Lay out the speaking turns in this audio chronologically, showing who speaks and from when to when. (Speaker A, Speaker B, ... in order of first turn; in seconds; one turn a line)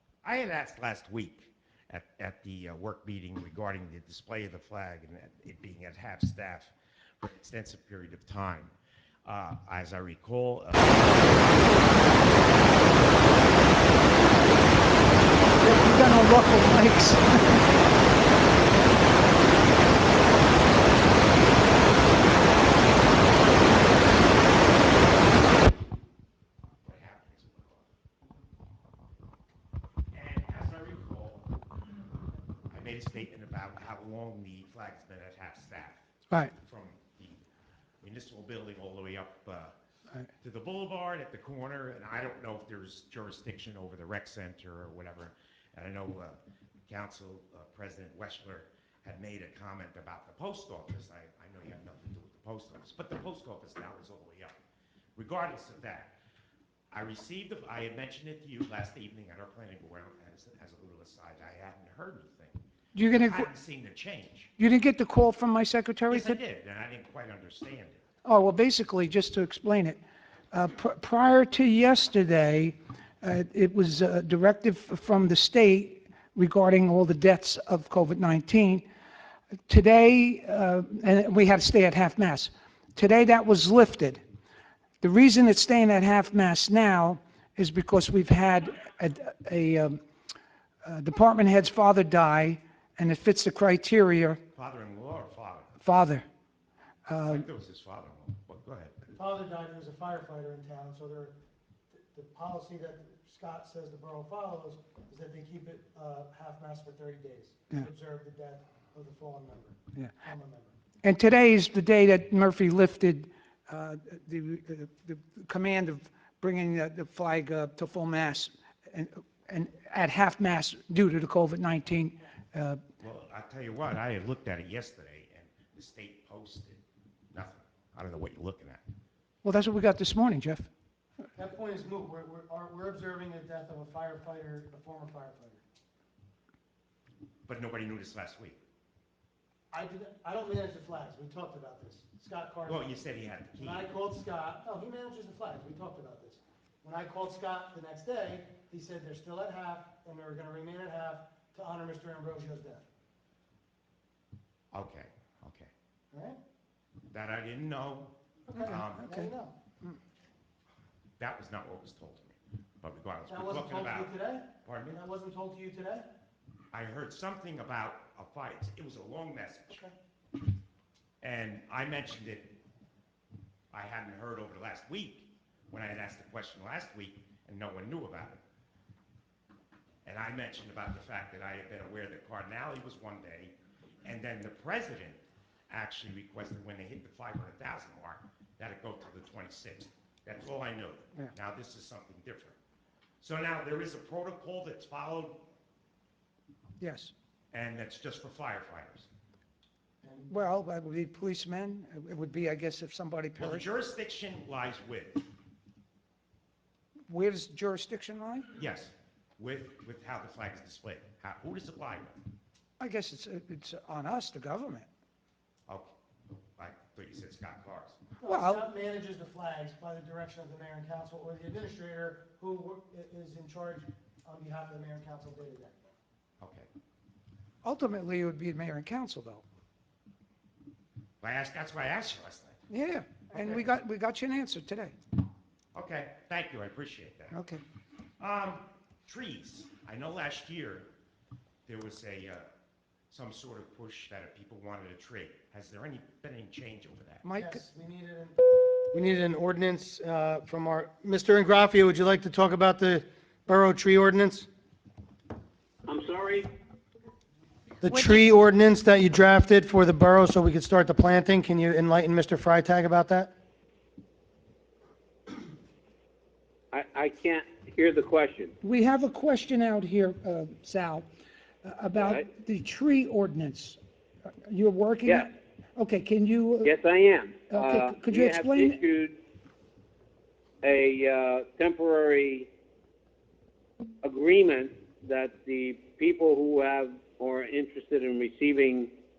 Speaker A: 0.2-13.2
Speaker B: 15.6-17.6
Speaker A: 23.5-23.8
Speaker A: 24.6-25.5
Speaker A: 26.8-27.8
Speaker A: 30.1-31.5
Speaker A: 32.7-37.4
Speaker A: 38.0-39.7
Speaker A: 40.4-54.6
Speaker A: 55.1-56.1
Speaker A: 56.9-64.5
Speaker B: 62.9-63.5
Speaker B: 64.6-66.4
Speaker A: 66.1-68.0
Speaker B: 68.2-70.0
Speaker B: 70.5-78.8
Speaker B: 79.7-84.2
Speaker B: 85.0-90.0
Speaker B: 90.8-94.4
Speaker A: 94.5-95.8
Speaker B: 95.8-96.2
Speaker B: 97.1-97.5
Speaker A: 97.2-99.0
Speaker C: 99.1-101.3
Speaker C: 101.9-110.7
Speaker B: 111.0-122.8
Speaker A: 123.0-126.8
Speaker A: 127.3-128.8
Speaker B: 129.4-130.7
Speaker C: 131.3-135.6
Speaker A: 137.4-138.6
Speaker C: 139.7-143.0
Speaker A: 142.7-143.9
Speaker C: 143.6-152.8
Speaker A: 154.7-155.7
Speaker C: 156.1-156.4
Speaker A: 157.1-159.1
Speaker C: 158.5-159.6
Speaker B: 158.6-159.3
Speaker A: 161.2-165.0
Speaker C: 163.3-166.1
Speaker A: 166.7-169.8
Speaker A: 171.2-172.5
Speaker A: 173.7-178.4
Speaker A: 180.0-192.6
Speaker A: 193.2-195.4
Speaker B: 196.8-197.1
Speaker A: 197.5-199.1
Speaker C: 200.0-200.3
Speaker B: 200.3-203.7
Speaker A: 203.4-205.3
Speaker B: 207.1-208.5
Speaker A: 208.5-212.2
Speaker B: 212.8-214.9
Speaker A: 215.7-218.0
Speaker C: 218.2-225.9
Speaker B: 218.2-218.6
Speaker A: 226.4-226.7
Speaker B: 227.6-229.4
Speaker A: 231.2-232.6
Speaker B: 232.7-234.9
Speaker A: 233.3-233.6
Speaker A: 235.7-237.3
Speaker B: 237.3-237.6
Speaker A: 238.2-240.9
Speaker A: 241.7-242.5
Speaker A: 243.1-247.2
Speaker B: 247.2-247.6
Speaker C: 247.4-254.5
Speaker D: 255.8-256.5
Speaker C: 257.8-263.3
Speaker D: 266.7-268.5
Speaker B: 268.6-271.1
Speaker B: 271.6-273.8
Speaker D: 271.9-272.2
Speaker B: 274.4-276.7
Speaker D: 276.6-279.2
Speaker B: 277.5-278.8
Speaker D: 280.6-282.5
Speaker D: 284.0-288.9